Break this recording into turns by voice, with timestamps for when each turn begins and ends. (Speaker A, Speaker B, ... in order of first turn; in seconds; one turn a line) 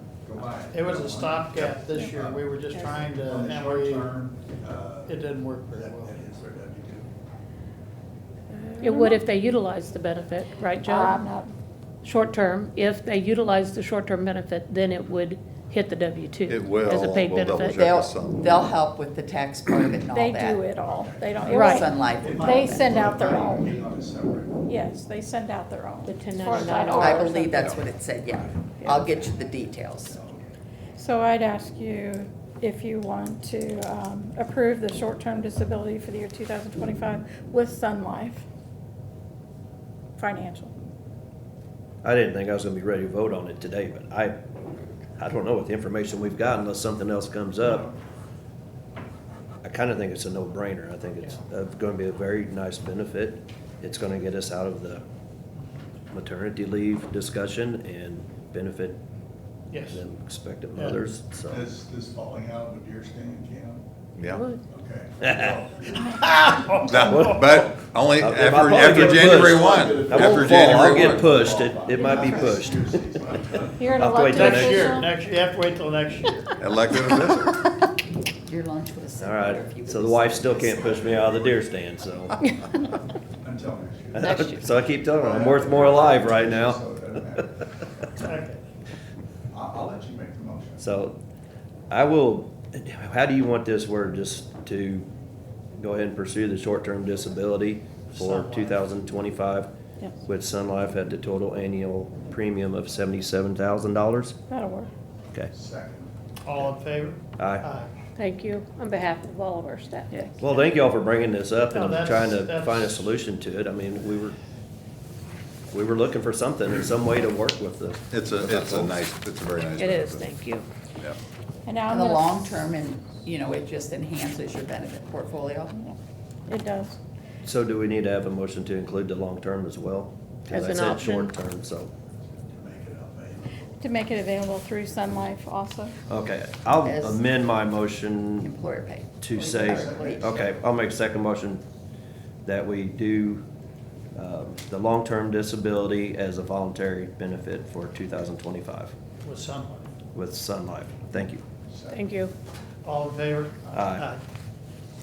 Speaker A: 0.2-7.1
Speaker B: 0.7-4.2
Speaker B: 5.1-6.2
Speaker C: 8.6-9.2
Speaker D: 8.8-11.2
Speaker C: 10.8-11.5
Speaker D: 12.0-17.8
Speaker E: 16.5-18.8
Speaker F: 17.7-20.7
Speaker C: 20.1-23.7
Speaker A: 20.8-21.6
Speaker F: 21.5-23.1
Speaker D: 21.5-21.9
Speaker A: 22.2-24.7
Speaker C: 24.7-27.8
Speaker D: 26.1-27.6
Speaker F: 26.7-30.2
Speaker A: 27.7-29.3
Speaker A: 30.1-30.4
Speaker C: 31.0-38.5
Speaker C: 40.2-40.7
Speaker G: 42.0-44.4
Speaker G: 45.2-47.9
Speaker G: 49.6-55.0
Speaker G: 56.1-59.0
Speaker B: 59.7-60.0
Speaker G: 59.9-61.7
Speaker A: 61.5-63.8
Speaker E: 64.2-64.4
Speaker D: 64.3-64.6
Speaker A: 64.7-66.5
Speaker G: 65.2-65.5
Speaker B: 66.1-67.7
Speaker E: 66.9-71.4
Speaker G: 67.2-72.9
Speaker A: 68.9-70.0
Speaker F: 70.2-70.8
Speaker A: 71.4-73.9
Speaker C: 72.1-72.6
Speaker C: 73.8-75.1
Speaker G: 73.9-75.1
Speaker B: 74.2-76.6
Speaker E: 76.6-77.8
Speaker F: 78.4-81.2
Speaker G: 79.2-82.4
Speaker A: 83.4-84.3
Speaker G: 84.2-86.8
Speaker D: 84.2-84.6
Speaker A: 85.1-87.6
Speaker B: 88.2-88.6
Speaker A: 89.5-90.8
Speaker G: 90.8-91.2
Speaker G: 91.9-95.1
Speaker G: 95.8-99.7
Speaker B: 98.1-98.8
Speaker G: 100.2-104.4
Speaker C: 104.5-104.9
Speaker A: 105.5-106.1
Speaker B: 106.5-107.9
Speaker G: 107.4-107.7
Speaker D: 108.2-110.3
Speaker G: 110.4-114.4
Speaker B: 111.7-113.1
Speaker G: 115.7-118.9
Speaker E: 118.1-120.3
Speaker D: 119.8-120.7
Speaker C: 121.7-122.3
Speaker F: 121.9-125.8
Speaker C: 126.5-127.0
Speaker G: 127.4-131.9
Speaker D: 130.5-131.3
Speaker A: 132.5-133.8
Speaker C: 133.8-135.9
Speaker G: 136.1-138.5
Speaker F: 136.8-137.2
Speaker F: 138.4-140.2
Speaker G: 139.2-141.6
Speaker A: 139.8-140.7
Speaker G: 142.4-143.4
Speaker G: 144.2-148.9
Speaker B: 149.2-149.9
Speaker G: 150.1-151.4
Speaker A: 151.7-152.1
Speaker D: 151.9-152.3
Speaker B: 152.8-154.2
Speaker G: 153.7-154.1